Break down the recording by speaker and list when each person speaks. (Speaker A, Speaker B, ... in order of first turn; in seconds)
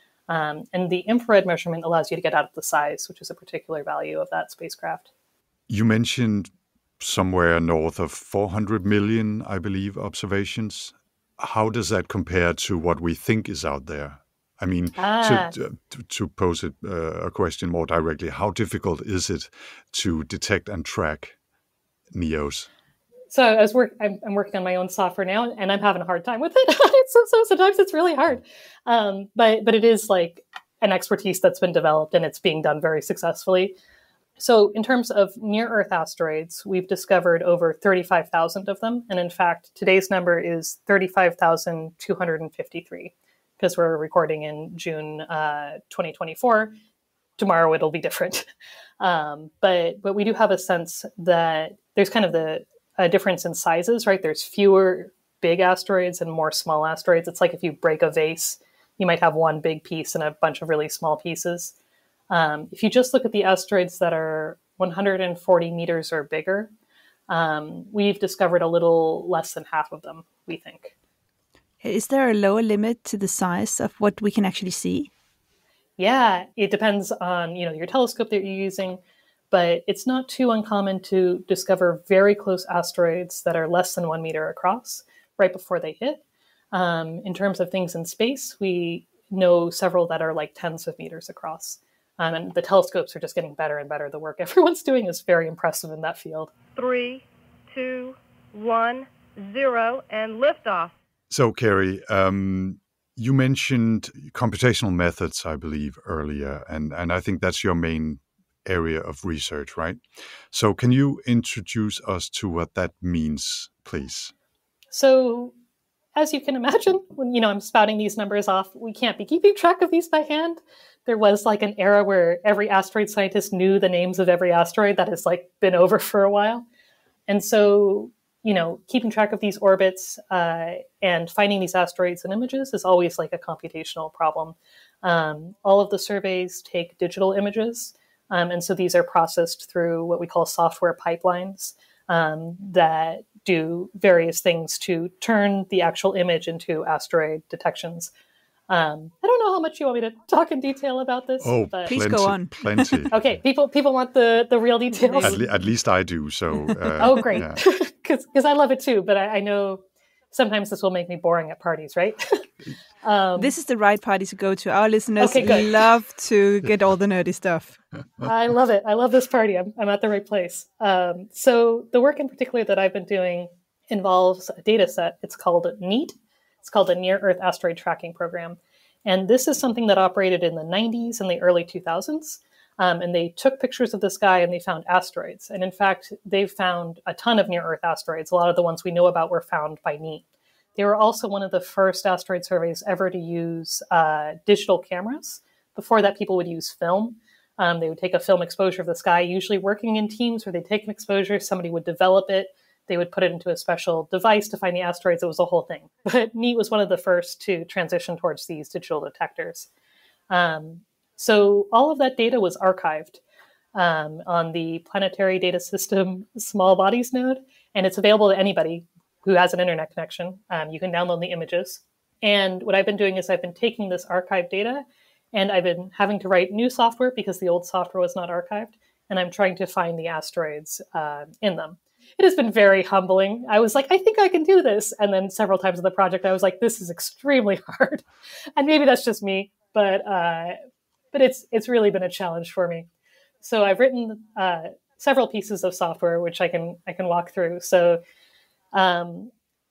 Speaker A: 0.3-5.1, 15.0-15.5, 23.3-33.8, 34.4-46.7, 47.4-48.5, 49.0-61.7, 62.3-66.7, 67.3-70.9, 76.0-79.0, 79.5-96.5, 114.9-115.5, 116.1-126.7, 127.3-148.1, 148.7-151.9, 153.1-155.5, 157.0-162.4, 163.0-163.5, 165.2-165.8, 168.2-190.2, 190.8-209.7, 210.3-213.2, 213.7-238.0, 238.6-240.6, 241.1-242.9, 243.4-248.0, 248.7-249.3
Speaker B: 5.7-21.3, 22.1-22.7, 101.3-110.0, 110.5-114.3, 151.4-153.2, 155.2-157.6
Speaker C: 71.8-75.1, 151.8-153.1, 154.9-155.4, 163.3-167.8
Speaker D: 96.7-100.9